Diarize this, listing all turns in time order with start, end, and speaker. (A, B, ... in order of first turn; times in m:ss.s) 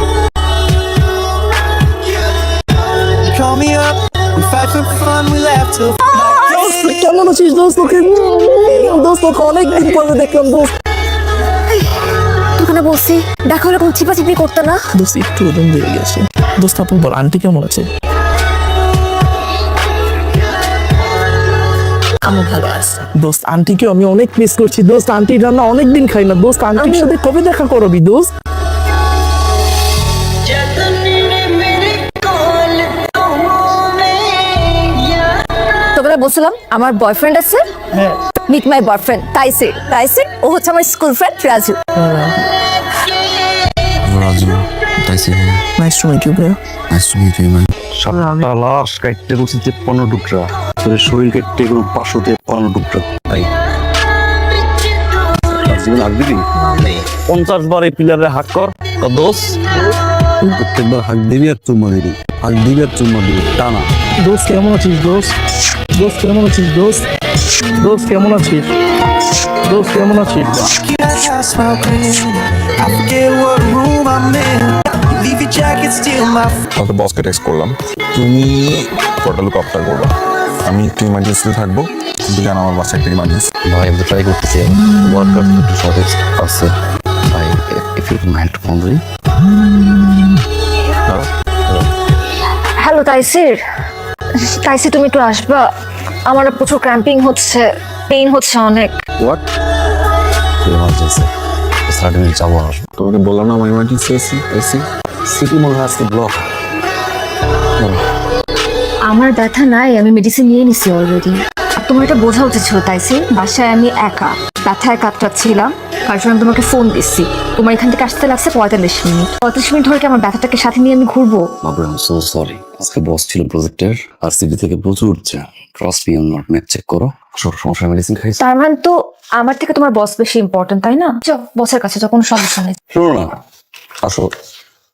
0:03.3-0:06.6 A
0:06.2-0:06.8 B
0:06.4-0:10.7 C
0:12.6-0:14.8 B
0:15.0-0:17.9 C
0:22.3-0:28.3 C
0:26.8-0:27.1 B
0:36.0-0:37.6 B
0:38.5-0:41.8 B
0:42.0-0:42.3 C
0:44.0-0:45.6 D
0:45.8-0:46.6 C
0:46.9-0:53.5 D
0:55.6-0:59.6 D
1:00.4-1:03.9 D
1:04.2-1:05.3 C
1:06.0-1:07.0 C
1:07.8-1:08.7 C
1:09.7-1:10.7 C
1:10.7-1:16.6 A
1:16.8-1:20.1 E
1:20.6-1:23.5 E
1:23.7-1:26.7 D
1:27.3-1:29.0 D
1:32.8-1:33.6 B
1:34.6-1:35.6 B
1:36.3-1:39.0 B
1:40.6-1:41.3 D
1:41.9-1:42.9 D
1:43.0-1:44.9 E
1:45.3-1:46.4 D
1:49.1-2:01.4 B
2:01.6-2:08.4 D
2:08.4-2:12.8 B
2:12.9-2:13.3 D
2:14.0-2:14.3 D